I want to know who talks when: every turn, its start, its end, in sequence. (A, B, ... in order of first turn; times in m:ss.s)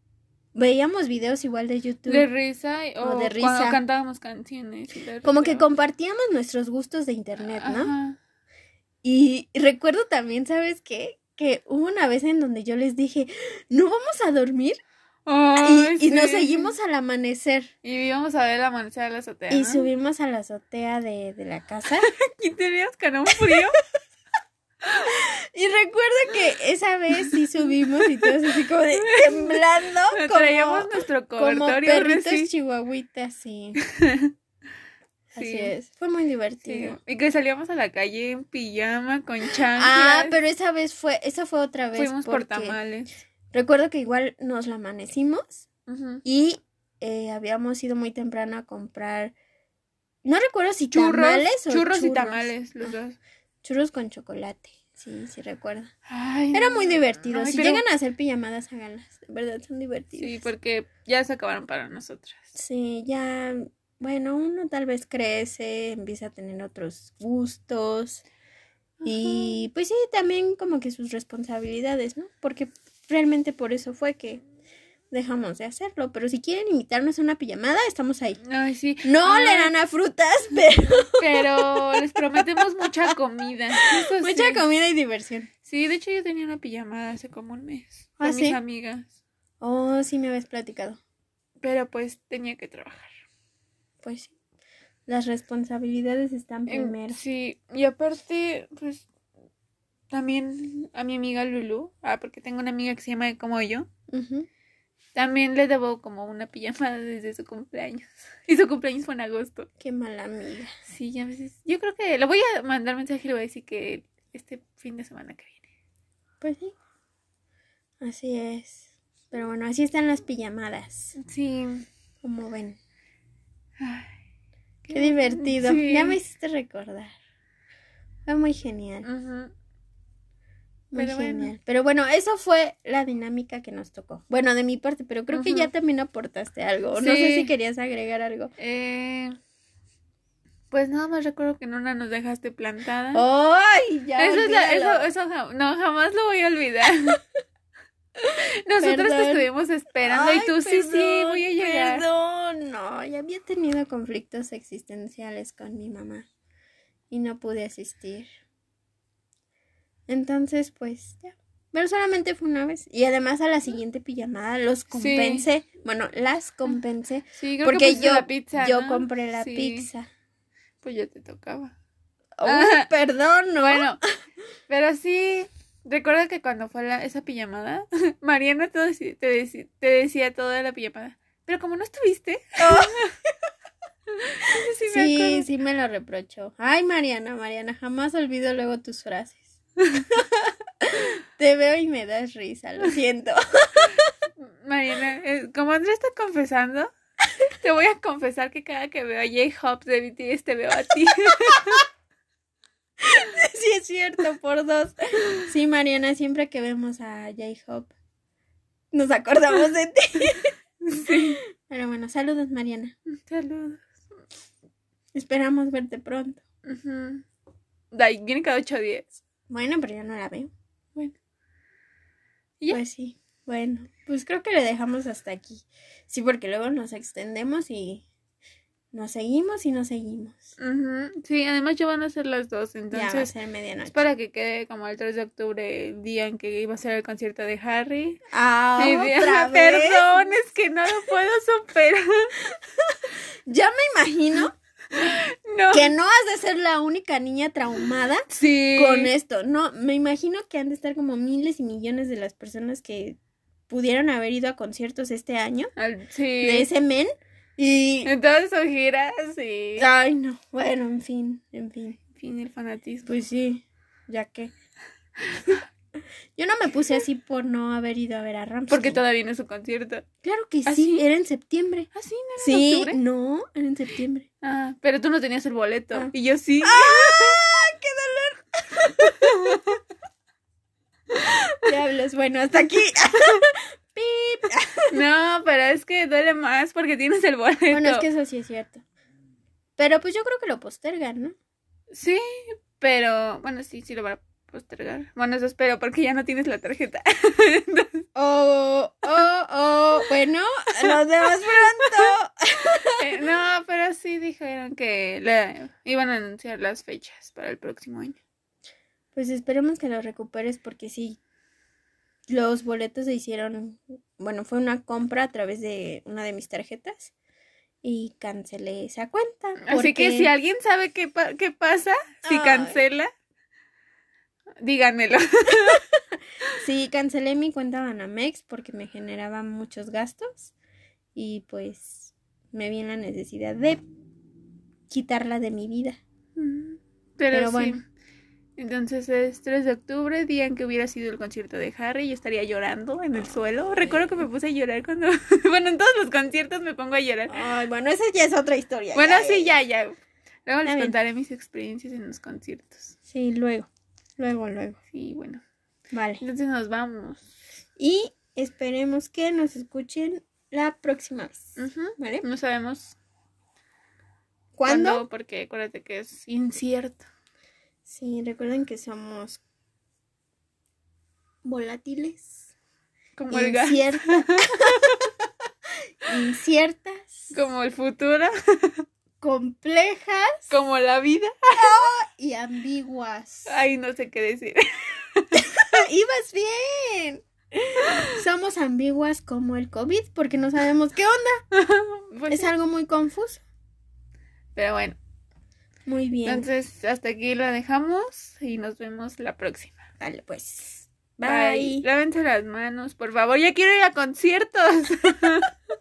0:00.6-0:02.3 A
0:02.1-0:05.6 B
0:03.0-0:03.8 A
0:05.2-0:08.0 A
0:07.4-0:08.2 B
0:09.0-0:14.8 A
0:15.3-0:16.7 B
0:15.6-0:17.7 A
0:17.8-0:19.9 B
0:19.5-0:22.1 A
0:22.0-0:23.8 B
0:25.0-0:33.8 A
0:29.1-0:29.6 B
0:30.1-0:32.5 B
0:33.8-0:34.3 B
0:35.4-0:37.0 A
0:35.4-0:35.7 B
0:36.7-0:40.4 B
0:39.7-0:42.8 A
0:42.0-0:43.1 B
0:43.5-0:45.7 A
0:45.9-0:46.2 B
0:46.2-0:49.3 A
0:50.2-0:53.0 A
0:50.9-0:53.2 B
0:53.6-0:55.9 A
0:56.1-0:57.8 B
0:56.5-1:00.5 A
1:00.2-1:02.4 B
1:02.6-1:08.2 A
1:09.0-1:14.4 A
1:15.1-1:18.4 A
1:18.4-1:19.7 B
1:19.0-1:22.8 A
1:21.2-1:24.6 B
1:23.8-1:25.5 A
1:25.7-1:29.1 B
1:28.2-1:28.6 A
1:29.6-1:31.0 A
1:31.6-1:33.1 B
1:34.0-1:34.3 A
1:35.1-1:37.2 A
1:36.7-1:39.1 B
1:40.1-1:43.9 B
1:44.1-1:44.5 A
1:45.2-1:49.7 B
1:49.8-1:50.7 A
1:50.9-1:55.6 B
1:56.4-1:56.8 A
1:58.0-2:01.2 A
2:01.2-2:01.9 B
2:02.2-2:02.8 A
2:03.8-2:04.1 B
2:04.9-2:06.2 B
2:04.9-2:07.1 A
2:08.3-2:09.1 A
2:09.0-2:09.5 B
2:10.9-2:18.5 A
2:11.0-2:11.5 B
2:15.3-2:15.7 B
2:17.0-2:17.5 B
2:18.6-2:19.4 B
2:20.7-2:23.2 B
2:23.1-2:25.1 A
2:24.2-2:27.2 B
2:28.7-2:32.0 B
2:28.8-2:29.5 A
2:30.0-2:36.3 A
2:37.1-2:38.3 A
2:40.1-2:50.1 A
2:44.9-2:45.5 B
2:47.4-2:49.9 B
2:50.8-2:51.7 B
2:52.4-2:54.0 A
2:52.4-2:52.9 B
2:53.6-2:54.0 B
2:54.7-3:03.1 B
3:02.6-3:03.1 A
3:04.1-3:05.5 B
3:04.5-3:14.1 A
3:14.4-3:16.9 B
3:17.5-3:21.8 B
3:23.0-3:27.9 A
3:28.9-3:32.9 A
3:30.8-3:31.4 B
3:33.1-3:33.9 B
3:35.2-3:36.4 A
3:36.6-3:37.2 B
3:37.9-3:39.2 B
3:39.5-3:40.5 A
3:42.7-3:48.0 A
3:48.9-3:50.5 A
3:50.6-3:53.3 B
3:52.9-3:54.0 A
3:53.9-3:58.2 B
3:58.3-4:00.2 A
3:58.8-4:02.4 B
4:02.5-4:04.5 A
4:04.9-4:05.9 B
4:05.7-4:13.2 A
4:08.3-4:09.1 B
4:13.7-4:15.7 A
4:15.8-4:16.7 B
4:16.4-4:18.1 A
4:18.1-4:19.8 B
4:19.8-4:22.0 A
4:22.1-4:23.1 B
4:23.1-4:24.5 A
4:26.4-4:29.0 A
4:28.7-4:30.0 B
4:30.2-4:34.3 A
4:30.7-4:31.1 B
4:31.9-4:33.0 B
4:34.4-4:37.4 B
4:36.6-4:39.4 A
4:39.2-4:39.6 B
4:41.2-4:45.0 A
4:44.9-4:48.1 B
4:47.7-4:48.8 A
4:49.8-4:51.4 A
4:51.9-4:58.0 B
4:58.2-5:03.1 A
5:00.8-5:02.1 B
5:03.0-5:08.2 B
5:09.2-5:11.2 A
5:12.3-5:17.1 A
5:17.8-5:20.3 A
5:19.6-5:23.1 B
5:22.2-5:22.8 A
5:24.6-5:25.8 B
5:26.5-5:30.5 A
5:31.2-5:33.8 A
5:34.9-5:36.0 A
5:36.4-5:37.8 B
5:37.3-5:37.8 A
5:38.6-5:47.4 B
5:47.3-5:49.6 A
5:49.0-5:53.0 B
5:50.6-5:51.0 A
5:53.1-5:54.8 A
5:54.9-5:55.4 B
5:55.9-5:56.2 A
5:56.2-5:57.3 B
5:57.8-6:02.3 A
6:01.6-6:03.0 B
6:04.6-6:05.0 A
6:04.7-6:07.1 B
6:07.9-6:09.4 A
6:11.4-6:12.4 A
6:13.2-6:15.0 B
6:13.3-6:15.0 A
6:16.0-6:17.3 A
6:17.3-6:18.9 B
6:19.2-6:20.5 A
6:20.5-6:21.8 B
6:21.5-6:23.5 A
6:23.5-6:25.8 B
6:25.4-6:31.4 A
6:31.5-6:32.5 B
6:32.3-6:33.4 A
6:34.6-6:35.0 B
6:35.9-6:36.5 A
6:36.3-6:39.8 B
6:40.0-6:41.8 A
6:41.3-6:45.5 B